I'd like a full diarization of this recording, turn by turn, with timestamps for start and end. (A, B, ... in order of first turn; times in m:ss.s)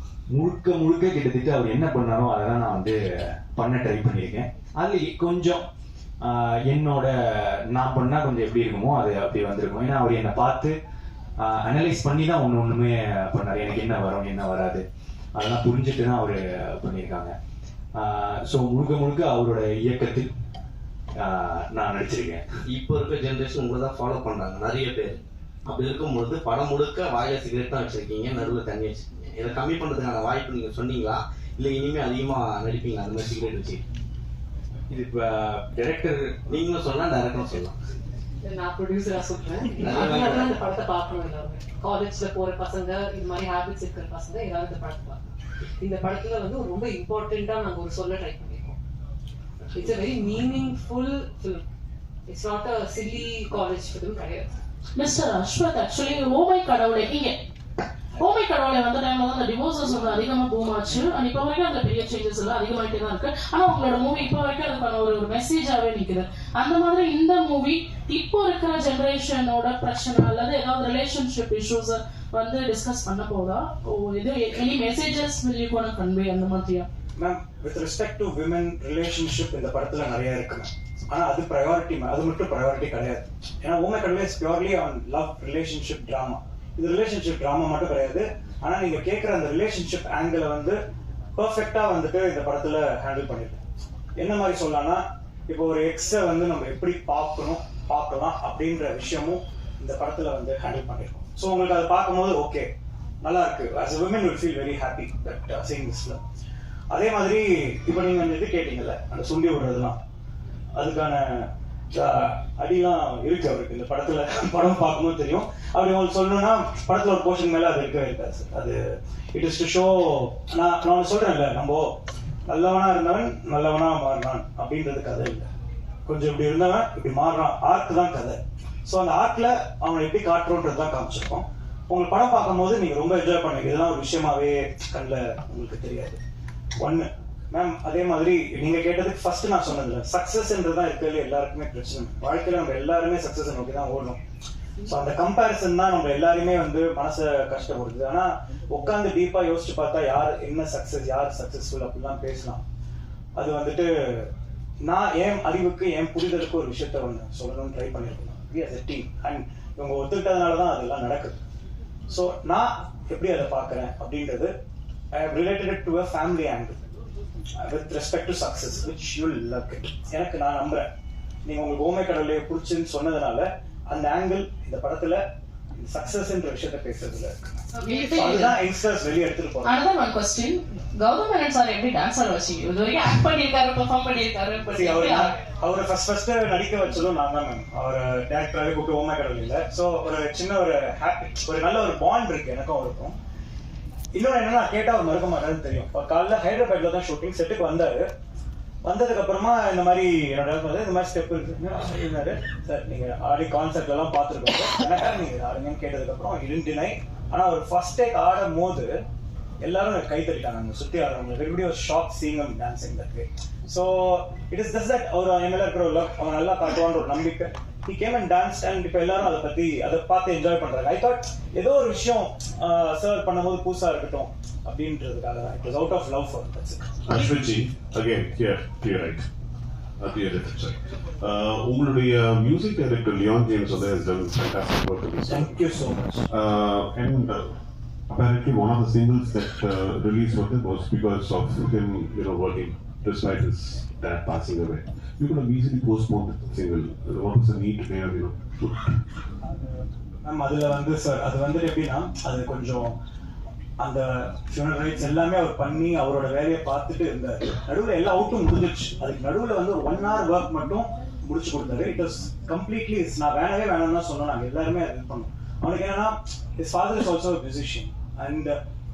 0:00.3-0:03.0 A
0:03.5-0:05.6 A
0:06.2-0:07.1 A
0:07.7-0:10.7 A
0:11.4-0:14.8 A
0:15.4-0:17.3 A
0:18.0-0:20.3 A
0:21.2-0:22.4 A
0:22.7-0:33.8 B
0:34.9-0:37.8 B
0:38.4-0:45.2 C
0:39.8-0:40.5 B
0:45.8-0:48.8 C
0:49.7-0:51.6 C
0:52.3-0:54.6 C
0:55.0-0:57.3 D
0:58.2-1:16.9 D
1:17.2-1:30.8 E
1:31.4-1:33.6 E
1:34.2-1:42.7 E
1:43.2-1:46.2 E
1:46.9-1:50.0 E
1:50.7-1:58.8 E
1:59.3-2:01.9 E
2:02.5-2:05.4 E
2:06.0-2:16.2 E
2:16.8-2:24.2 E
2:24.8-2:32.6 E
2:33.4-2:34.3 E
2:34.8-2:41.4 E
2:42.1-2:44.5 E
2:45.1-2:46.8 E
2:47.6-2:50.9 E
2:51.4-2:55.2 E
2:55.8-2:59.8 E
2:57.8-2:58.5 D
2:59.6-3:05.3 D
3:04.7-3:13.2 E
3:14.1-3:18.1 E
3:18.8-3:29.0 E
3:29.6-3:46.9 E
3:47.0-3:49.3 F
3:50.0-3:55.6 F
3:55.3-3:56.3 E
3:56.3-3:57.6 F
3:58.1-4:09.0 F
4:10.2-4:13.0 E
4:13.8-4:28.5 E